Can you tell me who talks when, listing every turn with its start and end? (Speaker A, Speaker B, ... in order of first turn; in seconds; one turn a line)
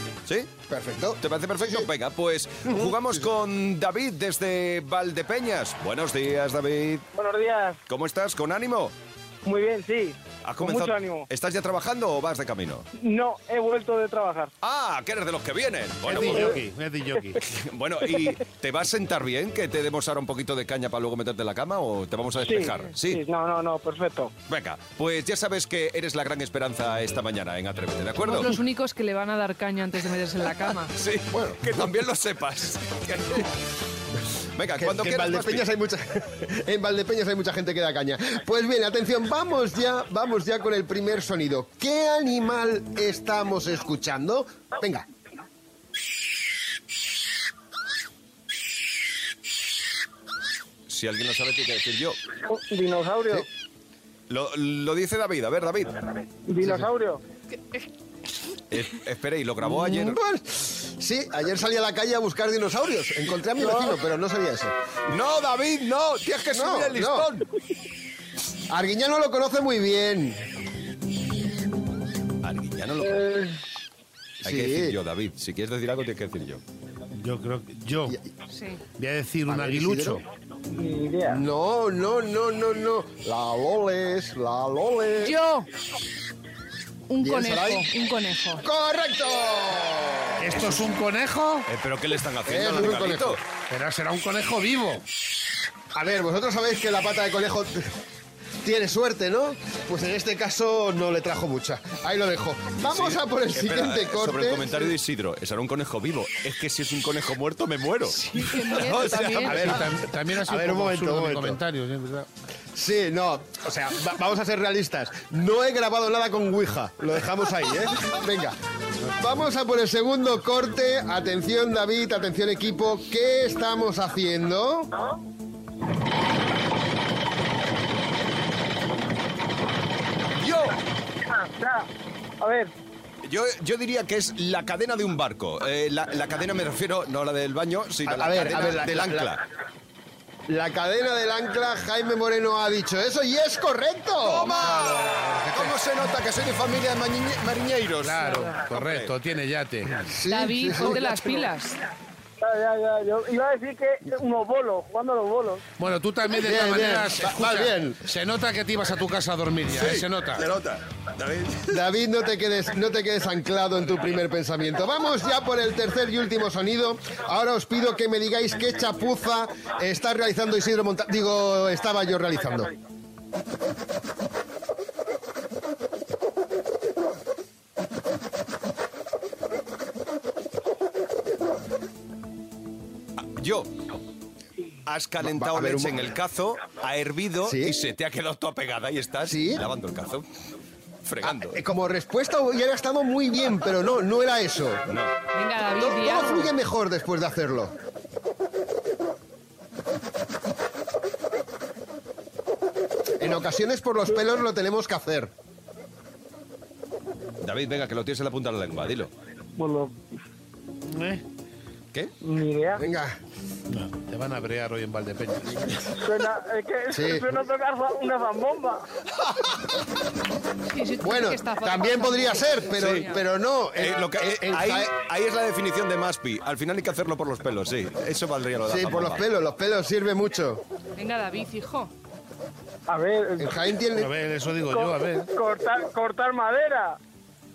Speaker A: 0.3-0.5
Speaker B: 0.7-1.9
Speaker A: 1.2-7.0
Speaker B: 2.6-3.3
Speaker C: 7.1-7.8
Speaker A: 7.9-8.9
Speaker C: 9.4-11.2
Speaker A: 10.4-12.8
Speaker C: 13.0-14.5
Speaker A: 14.6-16.6
Speaker D: 16.0-17.4
Speaker C: 16.1-16.5
Speaker A: 17.5-23.2
Speaker C: 22.4-24.3
Speaker A: 24.5-28.6
Speaker E: 28.2-30.9
Speaker A: 30.8-33.5
Speaker B: 31.3-31.9
Speaker A: 34.5-35.7
Speaker B: 34.8-45.0
Speaker A: 50.9-52.2
Speaker C: 52.5-53.5
Speaker A: 54.3-56.0
Speaker C: 56.5-57.2
Speaker A: 58.7-60.2
Speaker B: 59.6-64.7
Speaker C: 63.6-63.9
Speaker A: 65.1-67.5
Speaker B: 66.5-67.3
Speaker B: 68.7-70.4
Speaker A: 72.4-73.5
Speaker B: 74.4-75.0
Speaker A: 74.4-76.6
Speaker D: 77.1-78.2
Speaker E: 78.5-78.8
Speaker D: 79.0-80.2
Speaker B: 79.5-80.2
Speaker C: 80.7-81.4
Speaker B: 81.3-85.3
Speaker E: 85.2-85.7
Speaker E: 87.1-88.6
Speaker B: 87.2-87.9
Speaker B: 88.6-90.6
Speaker D: 90.4-91.7
Speaker A: 91.7-93.4
Speaker B: 92.5-93.4
Speaker D: 93.7-95.0
Speaker B: 95.9-97.9
Speaker B: 98.6-104.9
Speaker A: 102.8-109.6
Speaker E: 108.1-109.8
Speaker B: 109.4-111.6
Speaker D: 109.4-112.3
Speaker B: 112.7-118.6
Speaker B: 119.2-124.9
Speaker A: 130.4-130.7
Speaker C: 131.4-131.9
Speaker C: 132.4-132.7
Speaker A: 133.2-139.4
Speaker B: 138.1-139.4
Speaker B: 140.5-144.6
Speaker A: 144.2-149.1
Speaker D: 144.7-145.7
Speaker D: 148.0-149.9
Speaker E: 148.2-148.5
Speaker B: 150.0-151.1
Speaker E: 150.3-151.8
Speaker C: 151.1-151.5
Speaker C: 152.4-155.6
Speaker D: 155.8-160.4
Speaker B: 156.4-158.0
Speaker A: 159.8-161.7
Speaker B: 161.7-172.7
Speaker A: 183.2-183.7
Speaker A: 184.8-190.2
Speaker B: 185.2-186.1
Speaker B: 187.4-187.7
Speaker B: 189.2-189.6
Speaker A: 191.0-191.6
Speaker B: 191.2-194.9
Speaker A: 194.9-195.1
Speaker E: 195.3-196.5
Speaker B: 195.8-197.7
Speaker B: 203.2-205.3
Speaker A: 207.4-209.1
Speaker C: 209.6-210.0
Speaker D: 210.9-211.2
Speaker C: 212.2-212.8
Speaker B: 212.8-213.2
Speaker D: 213.7-215.8
Speaker C: 216.0-218.8
Speaker B: 216.9-217.3
Speaker E: 220.7-223.2
Speaker B: 221.0-224.9
Speaker A: 223.8-229.2
Speaker B: 228.7-230.6
Speaker E: 231.0-231.9
Speaker C: 232.9-233.6
Speaker B: 233.4-234.1
Speaker D: 233.9-235.3
Speaker C: 234.7-237.0